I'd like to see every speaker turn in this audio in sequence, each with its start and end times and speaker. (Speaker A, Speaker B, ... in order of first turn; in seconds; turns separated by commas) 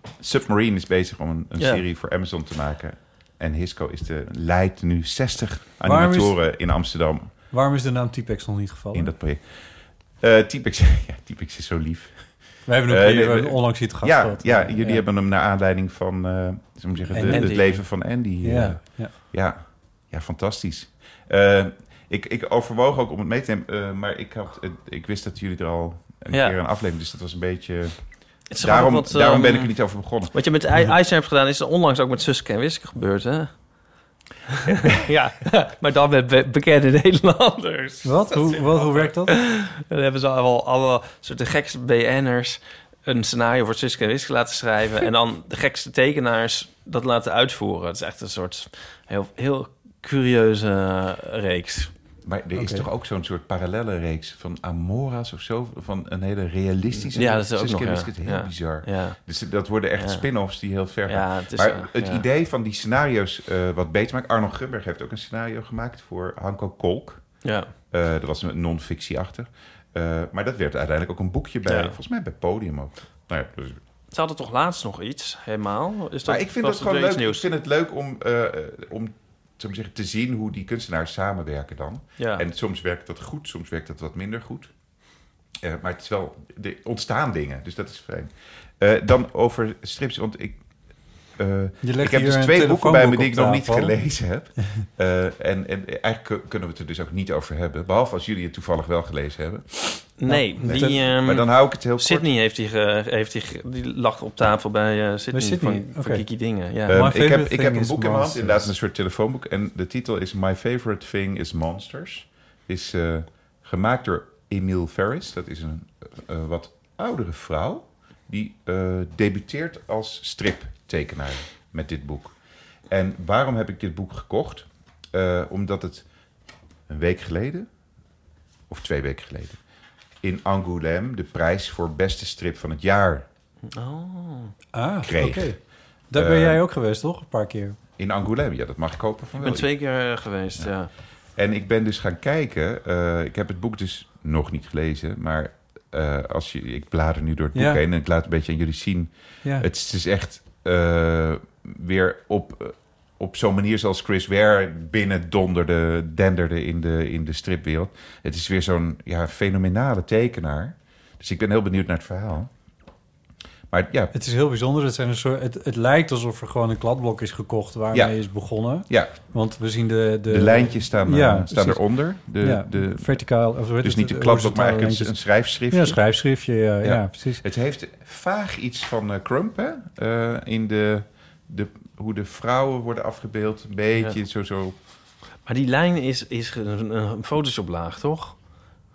Speaker A: 0.2-7.3, Speaker B: 5.8-6.4, Speaker B: 7.5-9.1, Speaker A: 8.9-9.5, Speaker A: 10.2-30.3, Speaker B: 12.7-15.0, Speaker B: 17.1-19.1, Speaker C: 17.3-17.8, Speaker C: 26.3-26.6, Speaker C: 28.5-33.6, Speaker C: 34.5-51.9, Speaker A: 34.7-34.9, Speaker B: 38.0-39.3, Speaker A: 52.2-73.8, Speaker B: 52.5-52.9, Speaker C: 57.1-59.2, Speaker C: 60.0-60.2, Speaker C: 61.1-62.2, Speaker C: 67.4-67.7, Speaker C: 71.7-72.0, Speaker C: 74.1-77.4, Speaker A: 76.2-84.7, Speaker C: 82.2-82.5, Speaker A: 85.6-90.6, Speaker A: 91.3-102.3, Speaker B: 91.8-94.0, Speaker C: 100.2-107.0, Speaker B: 100.3-101.1, Speaker B: 105.3-106.2, Speaker A: 106.9-122.4, Speaker B: 106.9-108.7, Speaker A: 122.9-126.1, Speaker A: 126.9-127.7, Speaker A: 128.7-129.6, Speaker A: 130.2-133.3, Speaker C: 133.7-134.6, Speaker B: 134.7-135.6, Speaker A: 135.0-135.6, Speaker B: 136.1-137.8, Speaker A: 136.1-136.6, Speaker A: 138.0-139.7, Speaker C: 139.4-140.9, Speaker A: 141.4-162.5, Speaker B: 147.5-147.8, Speaker A: 163.7-164.1, Speaker B: 164.1-171.8, Speaker A: 167.9-169.2, Speaker A: 170.3-176.0, Speaker B: 172.4-177.4, Speaker A: 176.8-184.8, Speaker C: 185.5-188.4